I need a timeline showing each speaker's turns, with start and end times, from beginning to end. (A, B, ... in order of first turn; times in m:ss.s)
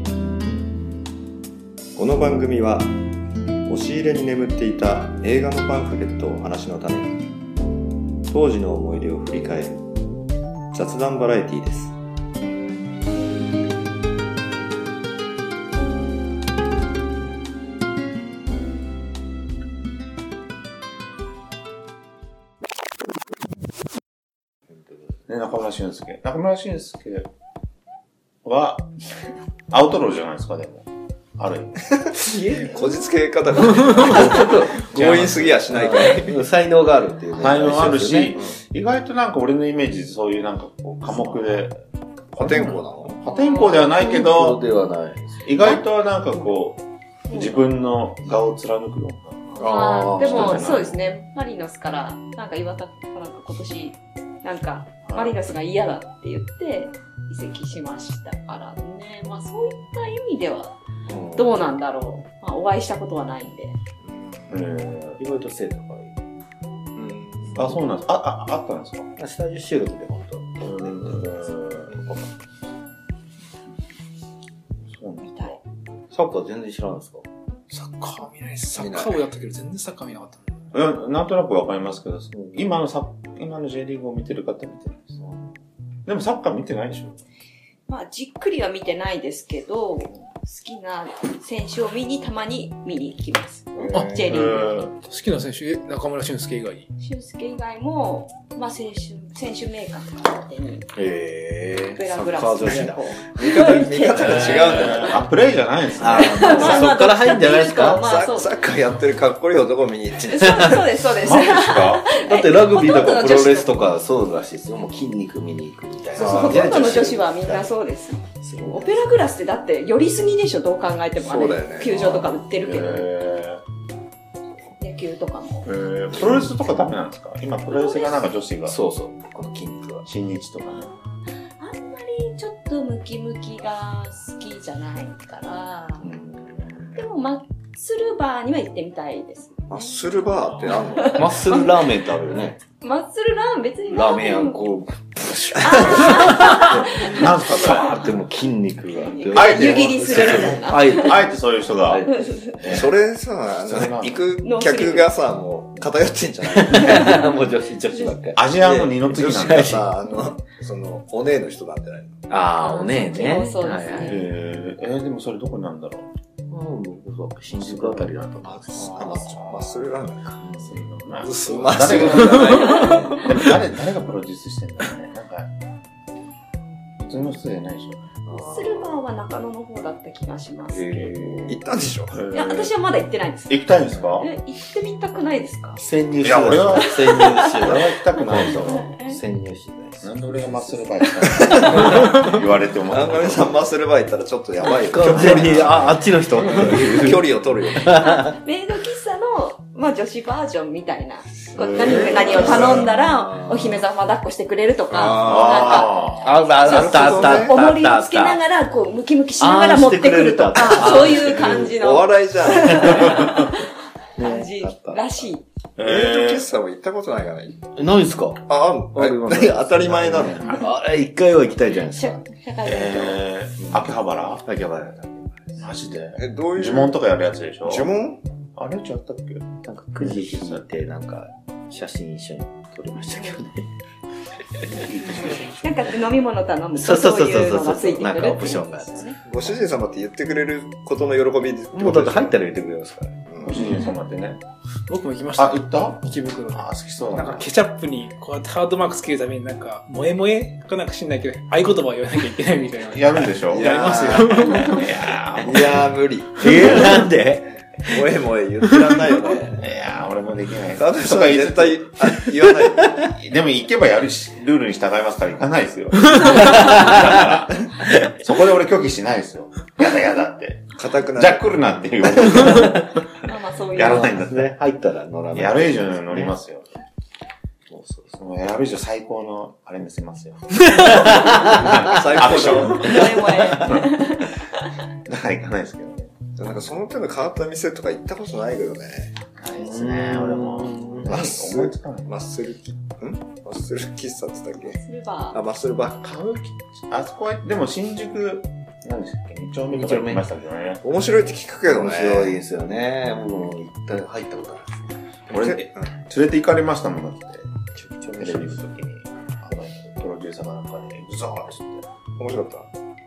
0:02.0-0:03.0 A
0:03.6-0:07.2 A
0:08.3-0:09.8 A
0:10.7-0:12.0 A
0:25.3-0:27.3 B
0:28.4-0:28.9 B
0:29.7-0:32.1 B
0:32.0-0:36.4 A
0:34.0-0:38.4 C
0:37.3-0:41.8 B
0:42.3-0:43.2 A
0:42.4-0:44.6 B
0:43.2-0:44.2 D
0:43.6-0:45.6 C
0:45.4-0:51.0 B
0:47.3-0:47.7 D
0:49.5-0:50.7 C
0:49.6-1:00.8 D
0:55.0-0:55.4 B
1:01.1-1:01.6 C
1:01.3-1:03.8 D
1:04.0-1:04.6 A
1:04.5-1:05.2 B
1:05.2-1:06.2 C
1:06.9-1:07.6 A
1:07.5-1:09.1 B
1:09.2-1:12.1 C
1:10.6-1:12.0 B
1:11.9-1:12.2 A
1:14.9-1:15.6 B
1:15.2-1:15.5 D
1:16.1-1:17.2 C
1:17.7-1:20.4 E
1:18.8-1:19.2 A
1:20.7-1:25.2 B
1:25.2-1:25.5 C
1:26.0-1:27.2 B
1:27.9-1:34.8 D
1:33.8-1:34.1 A
1:33.9-1:36.9 E
1:34.3-1:34.9 B
1:37.0-1:40.9 D
1:40.9-1:45.0 C
1:41.9-1:45.1 D
1:43.3-1:45.2 A
1:44.6-1:47.0 B
1:46.0-1:48.0 C
1:46.1-1:48.6 D
1:48.0-1:50.8 A
1:50.3-1:53.9 D
1:50.4-1:50.8 C
1:51.2-1:52.1 B
1:52.1-1:57.7 C
1:56.2-1:57.1 A
1:56.2-2:03.1 D
1:58.4-1:59.1 C
2:01.2-2:02.0 A
2:01.8-2:03.6 B
2:04.8-2:05.7 D
2:05.6-2:08.8 B
2:07.7-2:08.2 D
2:08.7-2:10.0 C
2:10.0-2:10.9 B
2:10.6-2:16.1 D
2:16.0-2:16.8 B
2:16.9-2:19.9 D
2:19.7-2:21.4 A
2:20.6-2:21.7 D
2:21.1-2:22.6 C
2:22.8-2:24.7 D
2:23.9-2:31.3 C
2:25.6-2:27.6 D
2:26.4-2:28.0 B
2:29.1-2:31.2 D
2:29.3-2:32.1 B
2:29.4-2:30.6 A
2:31.8-2:32.8 C
2:32.1-2:32.6 D
2:32.6-2:32.9 B
2:32.6-2:37.2 A
2:33.6-2:34.2 B
2:34.4-2:35.1 D
2:36.6-2:39.8 C
2:38.3-2:39.9 B
2:38.8-2:42.2 A
2:42.3-2:44.2 C
2:42.6-2:44.3 D
2:44.0-2:46.1 B
2:46.5-2:49.8 C
2:47.5-2:49.6 B
2:48.5-2:50.4 A
2:50.4-2:50.8 C
2:50.6-2:55.5 B
2:51.2-2:52.6 E
2:51.3-2:53.2 A
2:52.0-2:53.3 C
2:57.0-2:58.0 B
2:58.2-2:59.0 C
2:58.3-3:00.9 D
3:00.7-3:01.6 C
3:00.9-3:01.5 B
3:01.5-3:02.2 A
3:02.1-3:02.7 B
3:02.3-3:05.8 D
3:03.5-3:04.3 B
3:03.9-3:04.2 C
3:05.8-3:12.3 C
3:06.2-3:08.9 B
3:06.9-3:09.2 D
3:10.0-3:13.6 B
3:12.8-3:18.0 A
3:14.8-3:18.4 C
3:15.1-3:16.0 B
3:18.0-3:35.4 D
3:21.6-3:22.9 B
3:21.8-3:22.8 A
3:21.8-3:23.8 C
3:24.9-3:25.9 A
3:25.2-3:26.4 B
3:26.2-3:28.4 C
3:26.6-3:27.6 A
3:29.4-3:31.8 C
3:30.8-3:33.3 A
3:32.7-3:32.9 C
3:33.2-3:33.4 B
3:34.2-3:35.3 C
3:35.8-3:36.4 B
3:35.8-3:37.6 A
3:37.8-3:42.3 C
3:38.5-3:40.6 A
3:39.8-3:40.6 B
3:41.9-3:43.2 D
3:42.6-3:44.4 B
3:43.6-3:43.9 C
3:44.4-3:45.6 C
3:45.6-3:47.9 B
3:46.2-3:47.0 A
3:47.6-3:48.2 A
3:48.5-3:50.6 B
3:49.6-3:53.7 C
3:53.1-3:53.4 D
3:54.5-3:56.0 C
3:55.5-3:59.2 D
3:56.8-3:59.5 C
3:59.2-4:02.4 A
4:01.7-4:03.2 C
4:03.3-4:03.7 A
4:03.4-4:04.4 B
4:04.9-4:14.8 E
4:05.3-4:07.5 B
4:12.8-4:13.8 B
4:13.5-4:14.8 A
4:14.6-4:17.1 B
4:15.4-4:17.0 A
4:15.4-4:18.1 C
4:17.8-4:19.7 A
4:18.7-4:19.2 C
4:19.6-4:21.8 B
4:20.8-4:23.1 A
4:23.1-4:32.9 B
4:26.2-4:27.3 C
4:27.9-4:28.1 C
4:30.8-4:31.6 A
4:32.3-4:33.0 C
4:33.2-4:34.2 D
4:33.7-4:34.5 B
4:33.8-4:36.3 C
4:35.3-4:36.7 B
4:37.7-4:38.1 C
4:38.1-4:43.1 B
4:40.7-4:42.3 C
4:41.7-4:43.2 A
4:42.4-4:44.4 D
4:42.9-4:43.8 C
4:45.0-4:46.1 B
4:46.4-4:49.1 A
4:49.4-4:52.1 B
4:49.5-4:51.1 C
4:51.0-4:54.8 A
4:54.8-4:55.4 D
4:55.3-4:56.1 A
4:56.0-5:00.8 B
4:59.7-5:00.2 C
5:00.8-5:02.4 A
5:01.7-5:04.7 C
5:05.3-5:05.9 A
5:05.3-5:07.5 B
5:07.7-5:08.6 C
5:08.1-5:11.8 B
5:12.2-5:12.7 A